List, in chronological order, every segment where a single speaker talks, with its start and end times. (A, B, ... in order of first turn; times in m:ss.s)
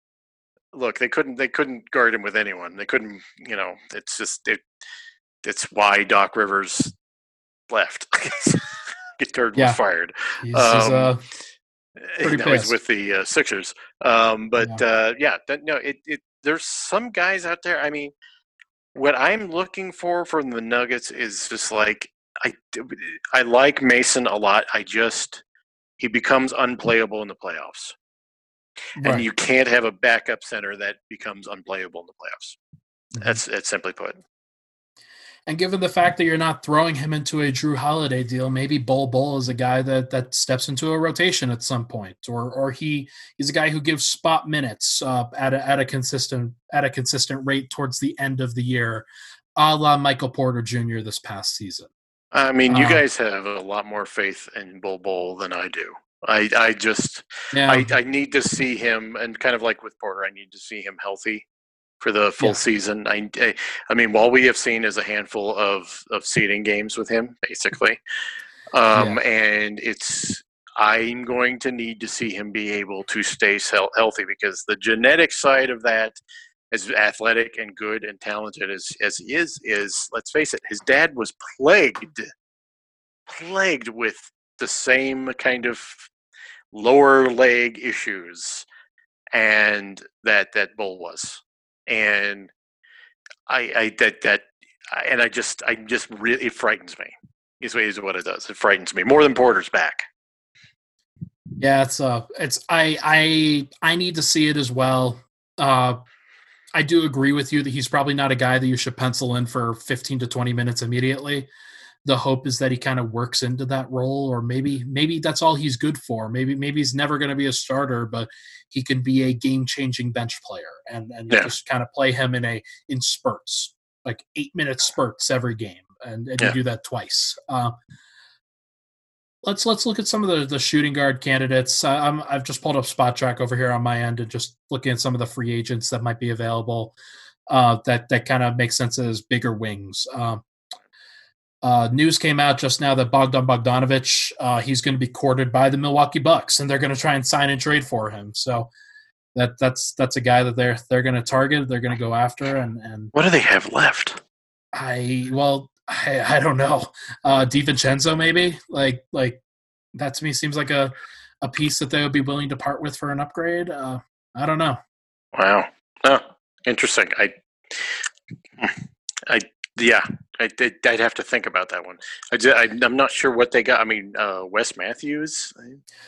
0:00.7-0:04.6 A
0:05.4-0:07.0 A
0:07.7-0:11.2 A
0:10.4-0:11.2 B
0:12.0-0:18.1 A
0:12.2-0:12.8 B
0:19.0-0:25.4 A
0:26.0-0:28.0 A
0:29.0-0:29.3 B
0:29.0-0:32.6 A
0:33.1-0:33.4 B
0:33.2-0:34.2 A
0:35.5-0:51.9 B
0:52.3-1:01.5 A
0:52.7-0:53.0 B
0:57.5-0:58.0 B
1:02.0-1:08.0 A
1:08.7-1:16.2 A
1:09.0-1:09.2 B
1:16.7-1:22.3 A
1:23.3-1:26.1 A
1:26.7-1:28.7 A
1:29.3-1:32.5 A
1:33.5-1:40.1 A
1:41.6-1:46.0 B
1:46.7-1:51.5 B
1:52.0-2:07.8 B
2:09.4-2:17.0 B
2:17.5-2:20.4 B
2:21.6-2:28.7 B
2:29.4-2:33.1 B
2:33.1-2:34.2 A
2:34.7-2:39.4 B
2:40.0-2:44.8 B
2:45.4-2:48.1 A
2:48.6-2:55.8 A